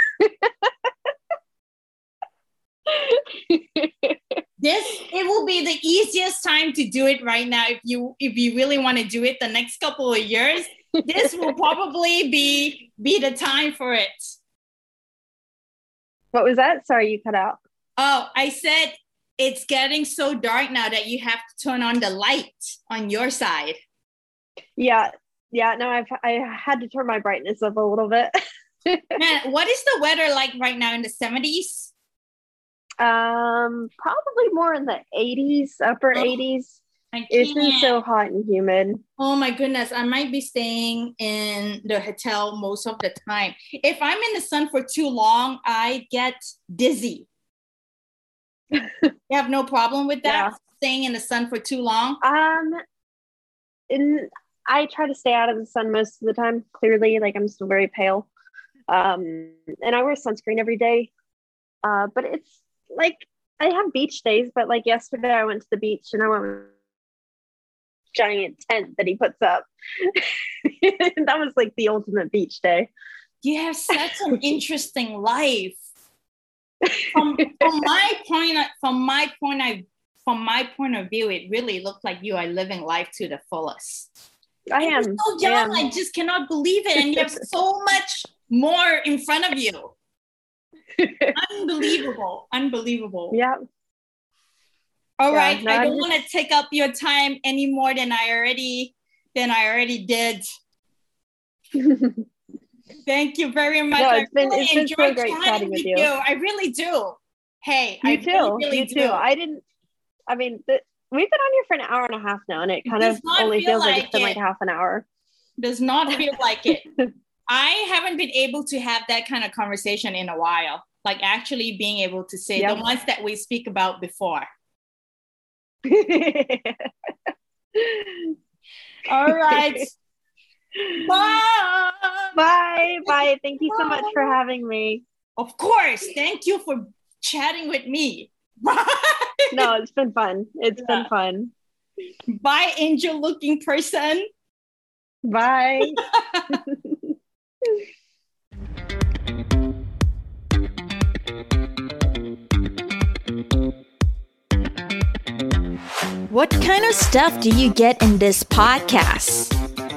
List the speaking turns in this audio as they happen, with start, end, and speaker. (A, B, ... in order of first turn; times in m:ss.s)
0:00.2-0:00.9 A
0:02.9-0:04.4 A
0:04.6-0:14.4 B
0:11.2-0:11.5 A
0:16.3-0:17.6 A
0:18.0-0:23.8 B
0:24.8-0:28.3 A
0:28.8-0:29.2 A
0:29.2-0:31.9 B
0:33.0-0:36.8 A
0:37.1-0:38.0 B
0:37.3-0:39.0 A
0:39.2-0:47.3 B
0:49.3-0:52.2 B
0:50.2-0:50.5 A
0:52.2-0:52.8 A
0:53.9-0:58.3 A
0:58.9-1:01.1 A
1:01.8-1:06.7 A
1:08.1-1:12.9 A
1:13.4-1:15.8 B
1:13.9-1:14.4 A
1:16.8-1:17.7 A
1:17.1-1:24.1 B
1:24.7-1:25.8 A
1:24.8-1:29.9 B
1:31.0-1:31.3 A
1:31.3-1:33.4 B
1:33.3-1:33.6 A
1:35.2-1:40.4 B
1:35.3-1:36.0 A
1:41.7-1:42.2 A
1:43.0-1:49.2 B
1:44.0-1:46.1 A
1:48.0-1:49.6 A
1:50.3-1:55.0 A
1:52.8-1:54.4 B
1:55.6-1:56.8 B
1:57.5-2:04.5 B
2:05.8-2:06.9 A
2:07.7-2:08.3 A
2:09.0-2:09.9 B
2:09.3-2:09.8 A
2:10.8-2:11.1 A
2:10.9-2:12.4 B
2:12.4-2:15.0 A
2:13.7-2:14.4 B
2:15.4-2:19.7 B
2:19.5-2:21.5 A
2:20.8-2:21.1 B
2:22.3-2:24.3 B
2:25.2-2:27.1 A
2:26.0-2:26.5 B
2:36.3-2:39.5 C